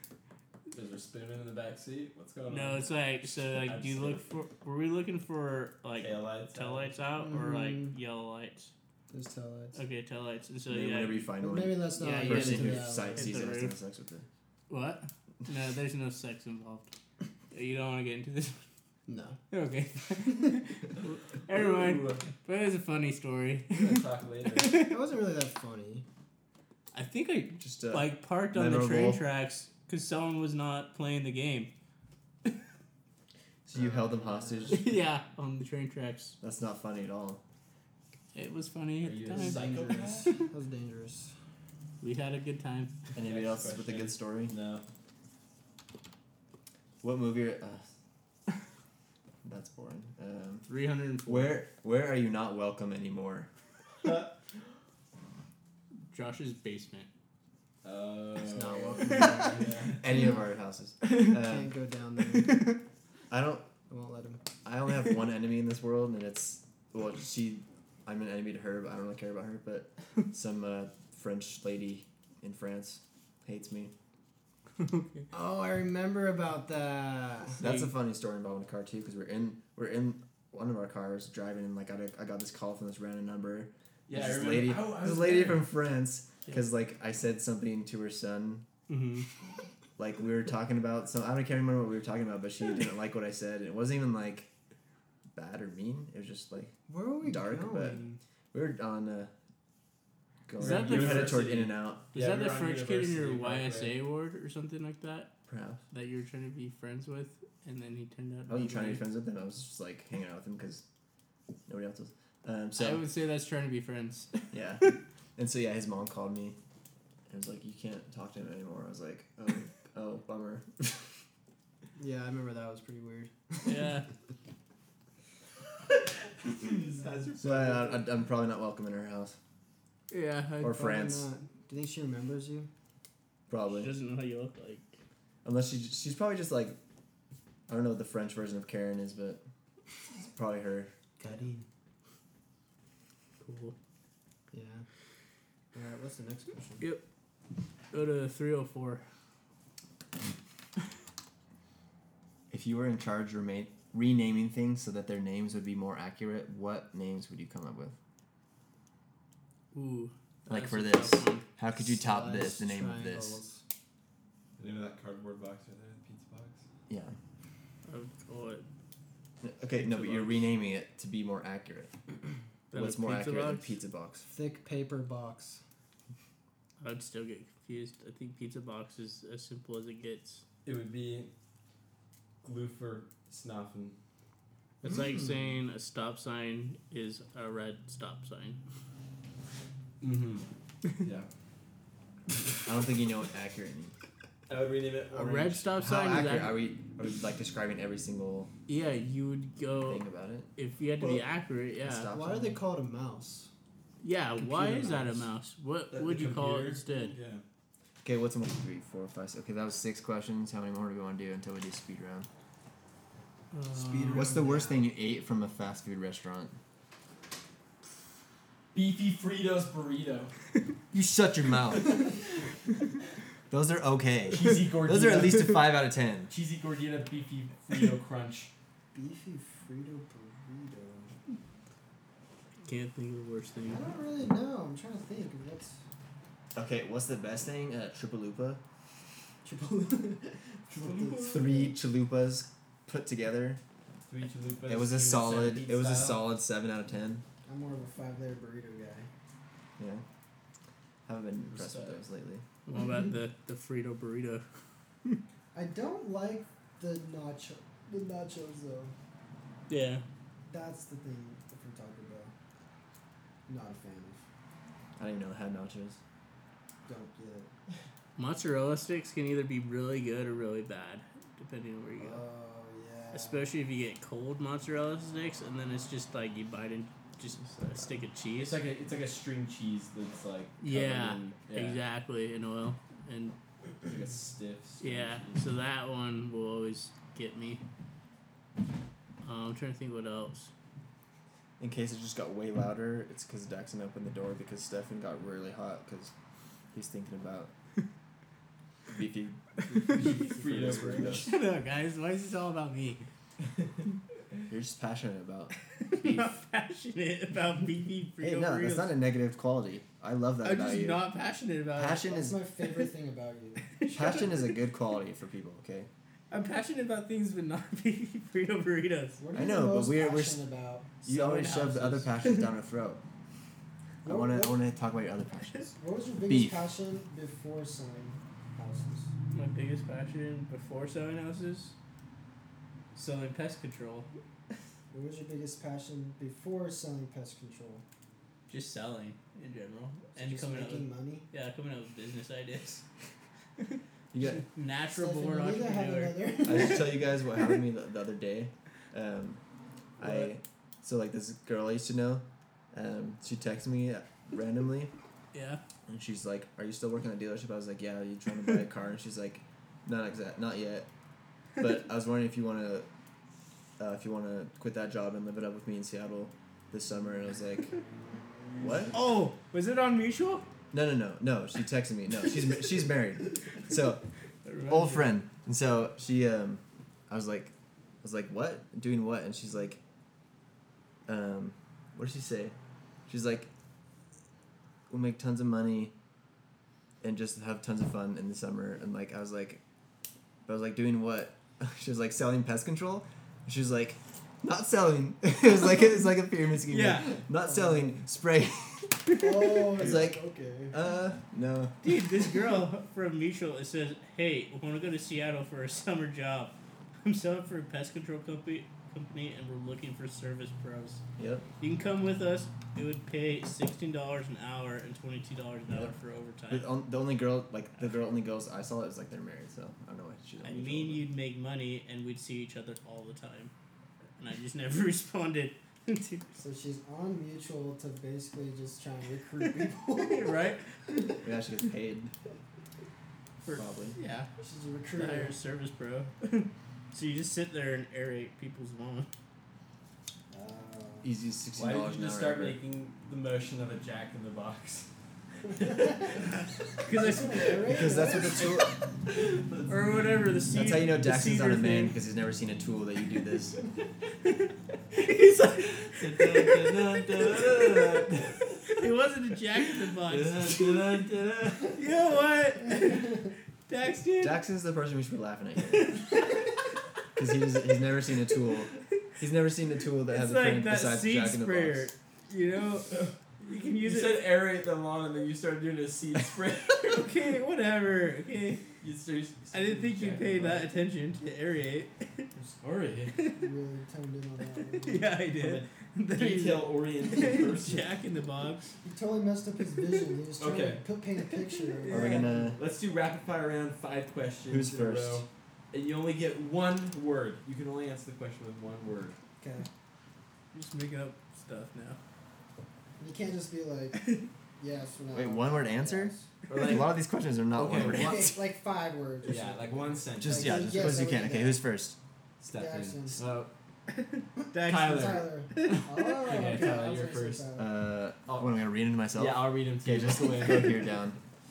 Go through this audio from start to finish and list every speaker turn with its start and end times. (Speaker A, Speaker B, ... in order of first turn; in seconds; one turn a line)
Speaker A: 0.7-4.3
Speaker B: 2.5-8.7
Speaker A: 6.0-6.9
Speaker C: 7.2-8.0
Speaker C: 9.1-9.8
Speaker B: 9.7-11.3
Speaker D: 10.7-14.2
Speaker C: 11.4-13.5
Speaker B: 11.9-13.8
Speaker B: 14.7-16.9
Speaker B: 17.5-18.6
Speaker C: 19.1-19.4
Speaker B: 19.5-24.0
Speaker A: 21.5-22.2
Speaker A: 23.7-24.9
Speaker B: 24.5-24.9
Speaker C: 24.8-26.0
Speaker B: 26.9-31.7
Speaker D: 27.6-29.2
Speaker D: 33.6-34.9
Speaker C: 33.7-34.8
Speaker B: 34.7-36.4
Speaker D: 36.4-37.4
Speaker B: 38.3-40.5
Speaker A: 39.0-40.4
Speaker C: 39.3-41.3
Speaker B: 42.0-43.0
Speaker D: 43.1-44.5
Speaker A: 43.1-44.8
Speaker D: 47.0-47.8
Speaker D: 49.4-50.7
Speaker B: 50.7-51.5
Speaker D: 51.2-53.5
Speaker A: 54.0-54.3
Speaker B: 56.1-57.1
Speaker A: 57.8-60.0
Speaker C: 58.4-60.4
Speaker D: 60.0-61.7
Speaker B: 61.0-61.3
Speaker C: 61.3-62.7
Speaker B: 62.3-62.8
Speaker D: 63.3-63.7
Speaker C: 63.9-64.4
Speaker D: 64.6-73.9
Speaker B: 74.8-75.2
Speaker C: 75.3-77.6
Speaker D: 77.6-88.7
Speaker B: 77.6-77.9
Speaker A: 84.1-85.7
Speaker B: 88.9-89.3
Speaker D: 90.0-94.5
Speaker D: 95.3-98.0
Speaker C: 96.9-98.2
Speaker D: 98.5-99.3
Speaker D: 100.5-102.0
Speaker B: 100.6-101.5
Speaker A: 100.6-104.0
Speaker B: 102.1-105.3
Speaker D: 105.5-105.8
Speaker B: 105.9-109.0
Speaker D: 108.5-110.8
Speaker D: 111.7-113.0
Speaker B: 112.8-114.4
Speaker D: 114.5-116.6
Speaker D: 117.3-121.1
Speaker C: 122.0-124.0
Speaker B: 123.6-124.1
Speaker A: 126.5-128.1
Speaker D: 127.4-129.4
Speaker B: 130.1-130.8
Speaker D: 130.6-131.3
Speaker C: 130.6-132.7
Speaker D: 133.5-133.9
Speaker B: 133.7-134.9
Speaker D: 135.4-136.8
Speaker D: 137.7-139.4
Speaker D: 140.1-140.9
Speaker C: 141.2-141.7
Speaker B: 143.4-143.8
Speaker C: 144.5-144.8
Speaker C: 145.7-146.8
Speaker B: 147.9-149.0
Speaker D: 152.5-158.0
Speaker B: 159.7-161.4
Speaker D: 160.5-163.4
Speaker C: 161.8-163.6
Speaker A: 164.6-166.6
Speaker D: 166.9-167.1
Speaker B: 167.9-168.7
Speaker D: 169.4-171.9
Speaker A: 169.8-170.4
Speaker B: 172.7-173.7
Speaker D: 172.7-174.3
Speaker C: 174.3-175.6
Speaker B: 176.8-180.4
Speaker A: 180.6-181.3
Speaker A: 182.4-184.0
Speaker C: 184.8-185.4
Speaker B: 184.8-188.6
Speaker A: 190.0-190.4
Speaker A: 191.0-191.3
Speaker D: 192.6-193.9
Speaker A: 194.5-195.7
Speaker B: 195.1-196.6
Speaker D: 195.8-198.5
Speaker B: 198.7-200.0
Speaker D: 199.8-200.5
Speaker B: 200.6-202.1
Speaker D: 201.8-202.6
Speaker C: 202.1-203.5
Speaker B: 204.0-207.1
Speaker C: 204.4-205.2
Speaker A: 205.9-207.4
Speaker D: 208.0-212.3
Speaker B: 213.5-214.4
Speaker C: 213.7-214.9
Speaker D: 214.1-216.6
Speaker A: 218.7-220.3
Speaker D: 220.9-222.1
Speaker D: 223.5-226.3
Speaker A: 224.3-225.6
Speaker A: 226.3-228.5
Speaker C: 228.9-231.2
Speaker B: 232.6-233.8
Speaker C: 233.7-235.8
Speaker D: 236.5-238.6
Speaker C: 239.4-241.8
Speaker A: 240.8-241.3
Speaker D: 241.2-243.6
Speaker A: 244.1-246.2
Speaker D: 244.7-247.2
Speaker C: 247.4-249.1
Speaker D: 249.8-250.0
Speaker D: 251.1-252.4
Speaker A: 251.5-252.0
Speaker B: 252.7-254.4
Speaker C: 252.8-253.1
Speaker C: 255.5-258.9
Speaker B: 259.7-260.0
Speaker C: 260.5-262.3
Speaker C: 263.5-264.2
Speaker D: 265.0-266.0
Speaker C: 266.9-267.5
Speaker B: 268.1-272.2
Speaker C: 272.0-273.5
Speaker B: 273.1-278.6
Speaker A: 278.3-281.8
Speaker B: 280.6-283.4
Speaker A: 283.8-285.5
Speaker B: 284.8-287.6
Speaker B: 289.2-290.5
Speaker D: 291.6-296.1
Speaker D: 296.7-297.5
Speaker D: 298.9-299.4
Speaker C: 299.7-301.3
Speaker A: 299.9-301.3
Speaker D: 300.5-301.3
Speaker B: 301.2-303.1
Speaker D: 304.5-306.3
Speaker B: 305.8-308.9
Speaker D: 308.2-311.1
Speaker B: 310.4-312.1
Speaker D: 311.7-312.4
Speaker C: 312.1-313.6
Speaker B: 313.8-314.6
Speaker D: 313.9-315.9
Speaker B: 316.3-319.2
Speaker C: 319.2-320.9
Speaker D: 319.3-320.4
Speaker D: 321.0-323.0
Speaker B: 321.0-322.5
Speaker C: 324.0-324.6
Speaker D: 324.0-325.7
Speaker C: 325.7-329.1
Speaker D: 326.3-326.6
Speaker B: 329.3-331.7
Speaker B: 332.9-334.1
Speaker C: 334.9-337.8
Speaker B: 338.5-342.8
Speaker C: 340.1-341.2
Speaker B: 343.6-346.6
Speaker D: 344.1-344.4
Speaker C: 344.9-347.2
Speaker D: 346.4-349.4
Speaker D: 350.0-354.9
Speaker C: 350.0-350.3
Speaker B: 355.3-355.6
Speaker D: 355.9-360.9
Speaker D: 361.6-362.9
Speaker D: 363.8-367.7
Speaker D: 368.6-368.9
Speaker B: 368.9-370.4
Speaker D: 370.7-374.0
Speaker B: 374.4-375.1
Speaker D: 374.6-379.8
Speaker D: 381.1-382.5
Speaker D: 383.1-383.5
Speaker D: 384.9-385.9
Speaker D: 387.0-389.6
Speaker D: 390.4-399.1
Speaker B: 396.7-397.2
Speaker C: 397.4-398.0
Speaker C: 399.2-400.8
Speaker D: 399.7-401.8
Speaker B: 401.8-411.0
Speaker D: 411.2-411.4
Speaker B: 411.6-416.7
Speaker D: 415.7-415.9
Speaker D: 416.5-421.0
Speaker B: 420.4-423.5
Speaker B: 424.2-426.3
Speaker C: 426.4-431.1
Speaker B: 429.5-431.2
Speaker D: 431.2-432.1
Speaker B: 433.4-434.3
Speaker D: 433.5-434.0
Speaker C: 434.4-435.4
Speaker B: 434.9-439.1
Speaker C: 440.3-441.1
Speaker D: 441.0-442.6
Speaker A: 441.5-444.9
Speaker A: 445.6-446.0
Speaker C: 445.6-446.0
Speaker B: 446.8-447.8
Speaker C: 446.9-448.5
Speaker D: 447.7-448.8
Speaker A: 449.1-450.2
Speaker B: 449.7-451.9
Speaker D: 450.5-453.6
Speaker B: 454.9-460.8
Speaker A: 456.0-458.5
Speaker A: 460.0-461.9
Speaker B: 461.7-464.4
Speaker D: 464.2-466.0
Speaker D: 467.1-471.9
Speaker B: 470.1-474.3
Speaker A: 473.8-477.1
Speaker B: 476.8-478.6
Speaker A: 478.8-480.7
Speaker B: 479.5-482.3
Speaker A: 482.4-483.2
Speaker B: 483.2-483.5
Speaker C: 483.3-485.1
Speaker B: 484.7-488.7
Speaker A: 485.3-487.9
Speaker C: 488.8-492.6
Speaker A: 490.4-490.8
Speaker B: 491.3-492.3
Speaker D: 491.9-492.6
Speaker A: 492.5-499.2
Speaker D: 494.5-495.3
Speaker C: 499.4-499.7
Speaker B: 500.5-502.0
Speaker C: 503.0-506.3
Speaker D: 505.1-508.4
Speaker A: 506.5-506.9
Speaker B: 506.5-506.8
Speaker A: 507.5-508.3
Speaker C: 507.8-511.6
Speaker A: 509.2-511.0
Speaker D: 510.2-512.0
Speaker A: 512.4-513.5
Speaker C: 512.5-513.2
Speaker B: 514.0-516.0
Speaker A: 514.5-517.4
Speaker C: 514.7-517.7
Speaker D: 517.5-521.2
Speaker A: 518.3-518.6
Speaker A: 519.1-520.8